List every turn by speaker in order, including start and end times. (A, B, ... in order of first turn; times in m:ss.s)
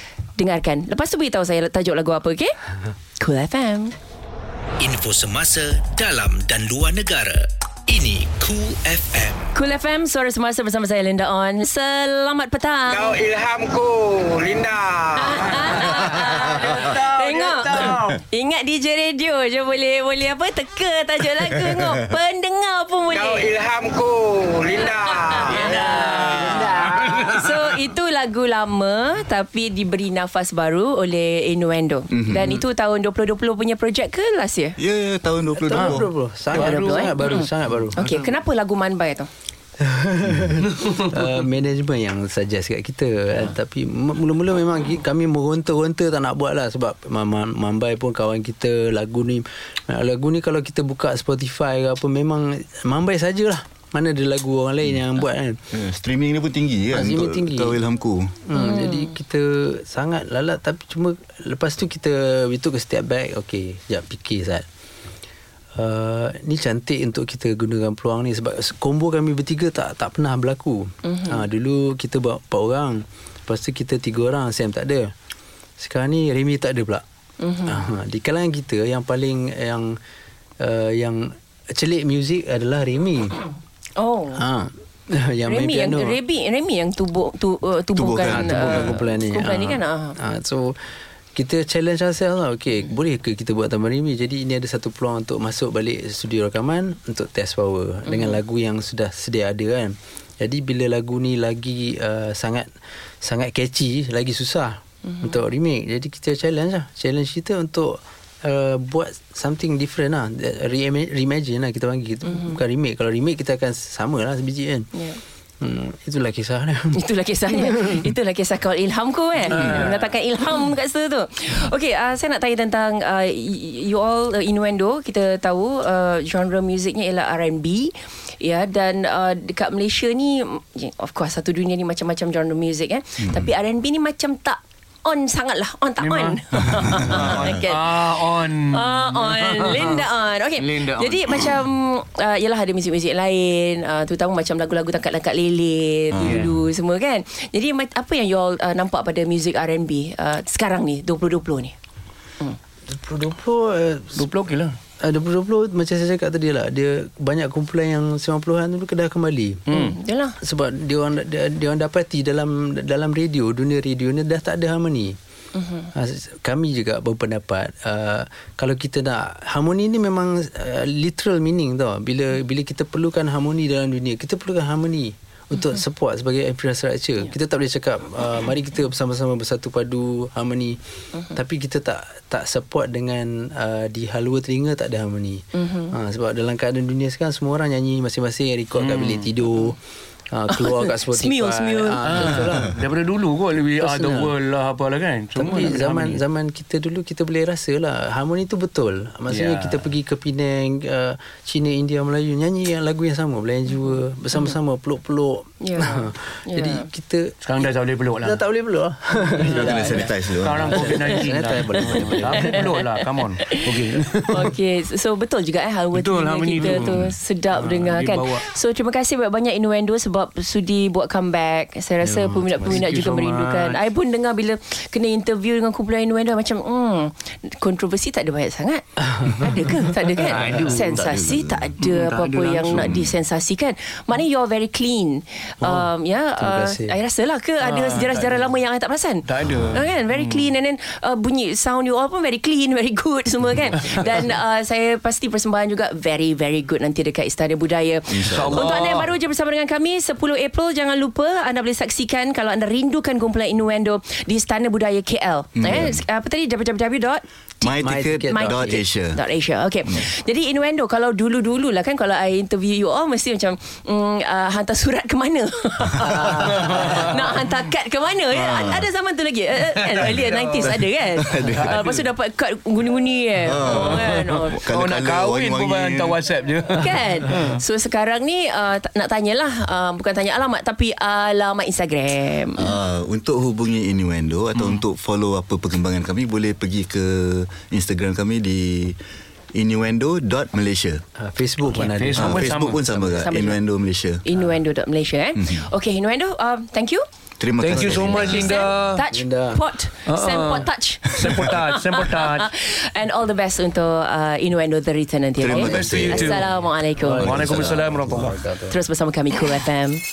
0:00.4-0:02.6 A
0:03.2-0:04.0 A
0:04.8-0:09.6 B
0:09.5-0:13.2 A
0:12.9-0:15.8 C
0:15.2-0:23.5 A
0:15.5-0:18.2 D
0:23.1-0:25.8 C
0:25.1-0:34.8 A
0:25.4-0:27.7 D
0:32.1-0:32.6 E
0:34.8-0:36.1 E
0:35.6-0:38.4 F
0:36.5-0:37.3 D
0:36.5-0:39.3 A
0:39.8-0:55.6 F
0:55.7-0:58.4 E
0:56.9-0:57.8 F
0:58.5-1:04.6 F
0:58.6-0:59.1 A
1:05.8-1:15.1 F
1:11.0-1:11.4 A
1:15.8-1:17.0 F
1:17.4-1:17.8 A
1:17.6-1:20.0 F
1:20.6-1:23.4 F
1:24.0-1:24.4 A
1:24.4-1:26.2 F
1:25.4-1:30.2 A
1:28.0-1:29.0 E
1:28.3-1:30.8 F
1:31.4-1:54.9 F
1:38.1-1:38.4 A
1:45.1-1:45.4 A
1:52.3-1:52.6 A
1:54.9-1:55.2 A
1:55.6-1:58.1 F
1:56.9-2:31.7 A
1:59.5-2:00.0 D
2:16.0-2:20.0 D
2:16.9-2:17.6 E
2:20.6-2:21.5 D
2:26.1-2:26.5 E
2:26.2-2:26.6 D
2:32.9-2:34.3 F
2:34.2-2:34.8 D
2:35.0-2:39.7 F
2:39.7-2:40.0 D
2:39.7-2:40.4 A
2:40.4-2:45.2 F
2:45.6-2:45.9 A
2:45.9-3:00.8 F
3:01.3-3:09.8 F
3:05.6-3:05.9 A
3:08.8-3:09.4 D
3:10.3-3:12.8 F
3:10.6-3:12.4 A
3:12.0-3:16.2 D
3:13.8-3:14.3 F
3:15.4-3:27.4 F
3:19.3-3:19.9 D
3:25.6-3:26.9 A
3:27.4-3:28.4 D
3:28.2-3:32.6 F
3:29.4-3:31.0 E
3:30.4-3:34.5 D
3:31.8-4:34.6 A
3:35.9-3:38.4 D
3:36.7-3:37.1 E
3:42.0-3:42.8 F
3:42.7-3:43.8 D
3:50.2-3:51.0 D
3:50.4-3:50.7 F
3:50.9-3:51.7 E
3:51.8-3:53.0 D
3:52.8-3:53.1 E
3:55.6-3:57.0 F
3:57.6-3:58.5 D
3:59.3-4:00.5 D
4:03.8-4:04.1 D
4:08.1-4:08.7 E
4:08.2-4:09.1 D
4:15.6-4:16.0 E
4:17.6-4:19.2 E
4:17.8-4:18.8 F
4:26.2-4:27.1 D
4:28.3-4:28.9 E
4:29.8-4:30.7 D
4:30.6-4:31.8 E
4:31.4-4:32.0 D
4:33.4-4:36.2 E
4:33.6-4:37.6 D
4:36.8-4:42.7 A
4:42.6-4:49.0 E
4:49.6-4:51.0 E
4:51.2-4:53.1 F
4:51.8-4:52.9 D
4:52.2-4:54.2 E
4:53.1-4:53.6 A
4:54.2-4:57.0 A
4:55.4-4:55.7 E
4:57.4-4:58.7 E
4:57.6-4:59.0 D
4:57.8-4:58.2 F
4:58.2-5:07.4 A
4:59.1-4:59.6 F
5:00.1-5:02.5 D
5:05.4-5:06.4 E
5:05.5-5:06.5 D
5:05.6-5:08.8 F
5:07.0-5:08.4 D
5:07.3-5:08.2 E
5:08.7-5:10.0 A